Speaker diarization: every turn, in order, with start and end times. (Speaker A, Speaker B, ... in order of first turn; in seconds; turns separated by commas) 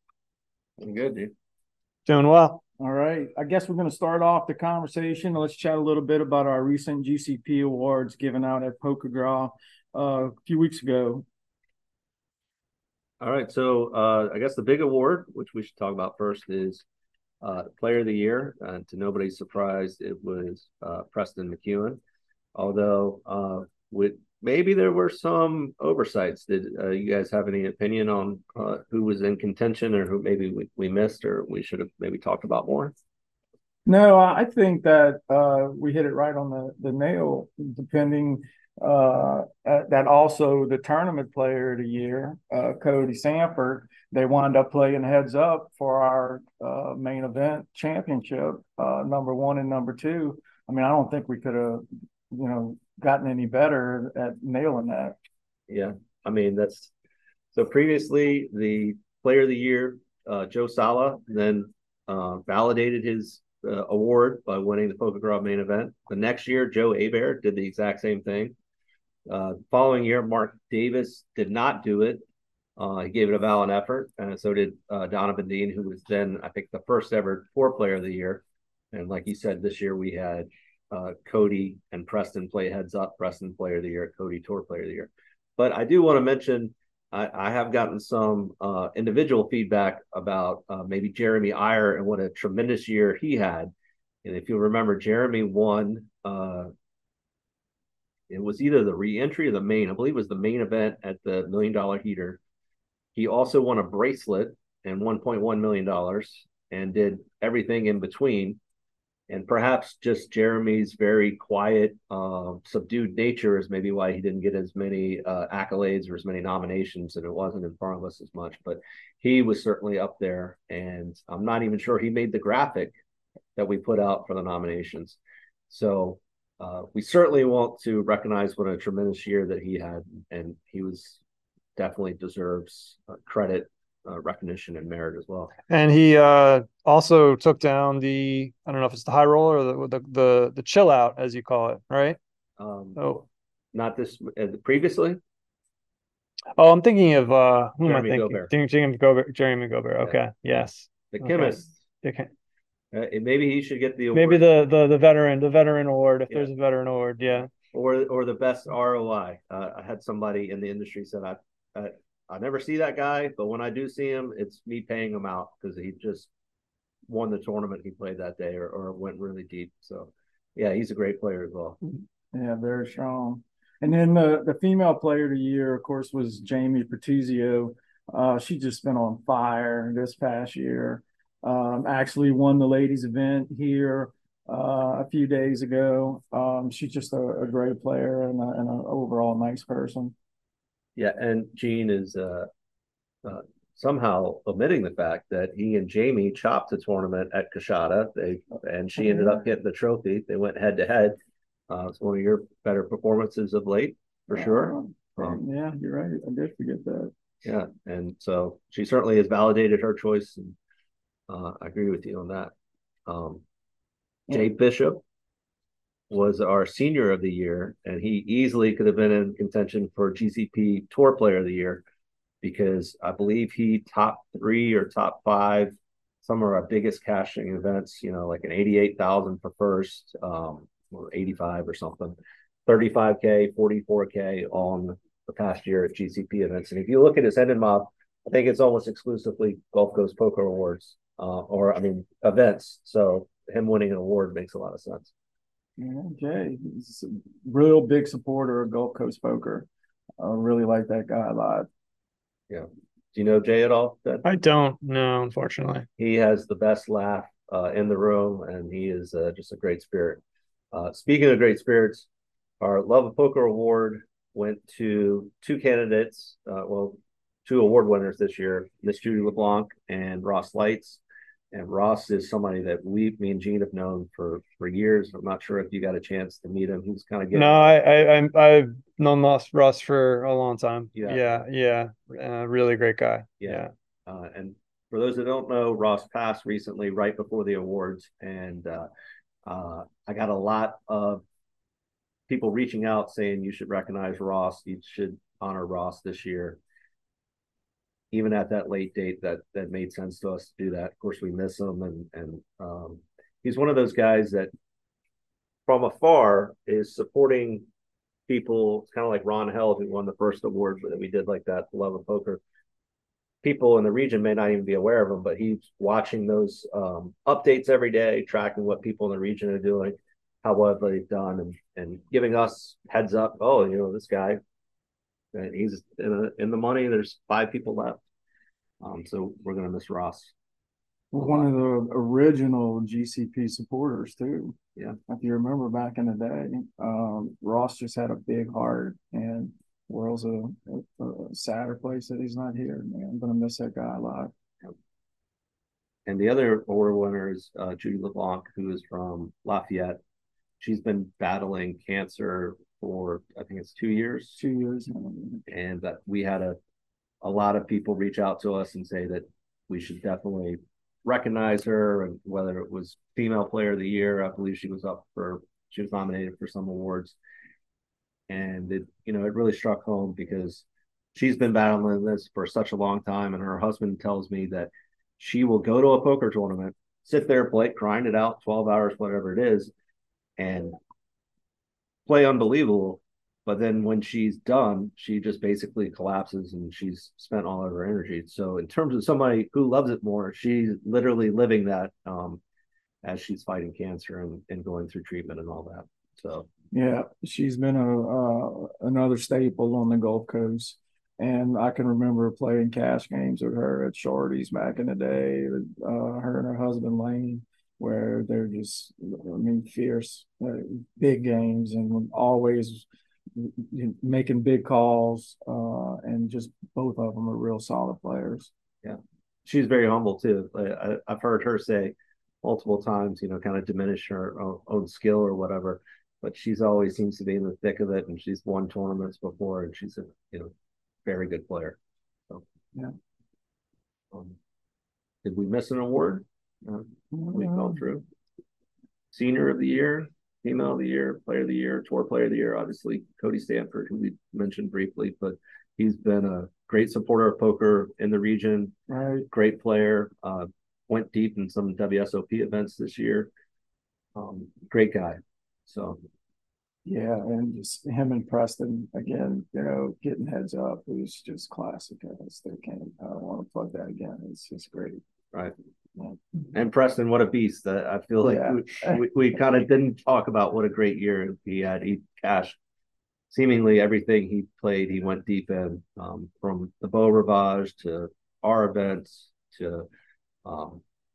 Speaker A: 0.8-1.3, Speaker B: 2.1-2.6, Speaker C: 2.8-11.2, Speaker A: 13.2-16.8, Speaker A: 17.4-22.0, Speaker A: 22.6-32.9, Speaker C: 33.9-55.2, Speaker A: 55.7-56.9, Speaker A: 57.5-68.5, Speaker A: 69.3-72.2, Speaker A: 72.8-93.7, Speaker A: 94.2-96.7, Speaker A: 98.3-102.4, Speaker A: 103.2-108.6, Speaker A: 109.3-123.0, Speaker A: 123.6-125.2, Speaker A: 125.7-131.2, Speaker A: 131.8-135.5, Speaker B: 135.7-142.2, Speaker A: 142.6-143.0, Speaker B: 143.0-143.2, Speaker A: 143.7-145.2, Speaker B: 146.6-152.3, Speaker A: 147.8-148.5, Speaker A: 151.1-151.8, Speaker A: 152.9-154.4, Speaker B: 154.1-157.5, Speaker A: 157.6-166.3, Speaker A: 167.1-171.8, Speaker C: 172.3-190.1, Speaker A: 191.0-192.5, Speaker A: 193.2-201.2, Speaker C: 199.0-199.4, Speaker A: 201.7-205.4, Speaker C: 204.3-207.1, Speaker A: 207.4-210.6, Speaker A: 211.3-212.5, Speaker A: 213.1-213.4, Speaker A: 214.3-215.0, Speaker A: 216.1-221.8, Speaker A: 222.4-245.1, Speaker C: 245.8-249.7, Speaker C: 250.2-251.7, Speaker A: 252.5-254.3, Speaker B: 254.2-255.9, Speaker A: 256.0-262.1, Speaker A: 262.6-271.0, Speaker A: 271.5-277.7, Speaker B: 277.3-283.7, Speaker A: 280.9-281.2, Speaker A: 283.4-288.9, Speaker A: 289.4-291.2, Speaker A: 292.3-296.6, Speaker A: 298.1-304.5, Speaker A: 305.7-307.7, Speaker A: 308.3-312.4, Speaker A: 313.4-324.4, Speaker A: 325.3-328.0, Speaker A: 328.8-330.3, Speaker C: 331.1-334.6, Speaker A: 331.1-331.5, Speaker C: 335.1-344.3, Speaker A: 346.1-350.0, Speaker A: 350.6-354.4, Speaker C: 354.4-355.4, Speaker A: 355.5-356.6, Speaker A: 357.2-367.2, Speaker A: 368.3-379.7, Speaker A: 380.4-380.8, Speaker A: 382.1-392.4, Speaker A: 393.0-396.5, Speaker C: 396.7-418.5, Speaker A: 418.8-430.5, Speaker A: 431.1-431.8, Speaker A: 434.1-434.4, Speaker A: 435.2-438.1, Speaker C: 437.1-437.7, Speaker A: 439.1-448.7, Speaker C: 448.9-449.3, Speaker A: 449.3-453.3, Speaker A: 454.1-456.0, Speaker C: 456.9-465.0, Speaker A: 466.5-472.6, Speaker C: 468.2-469.0, Speaker A: 473.3-479.9, Speaker A: 480.4-480.8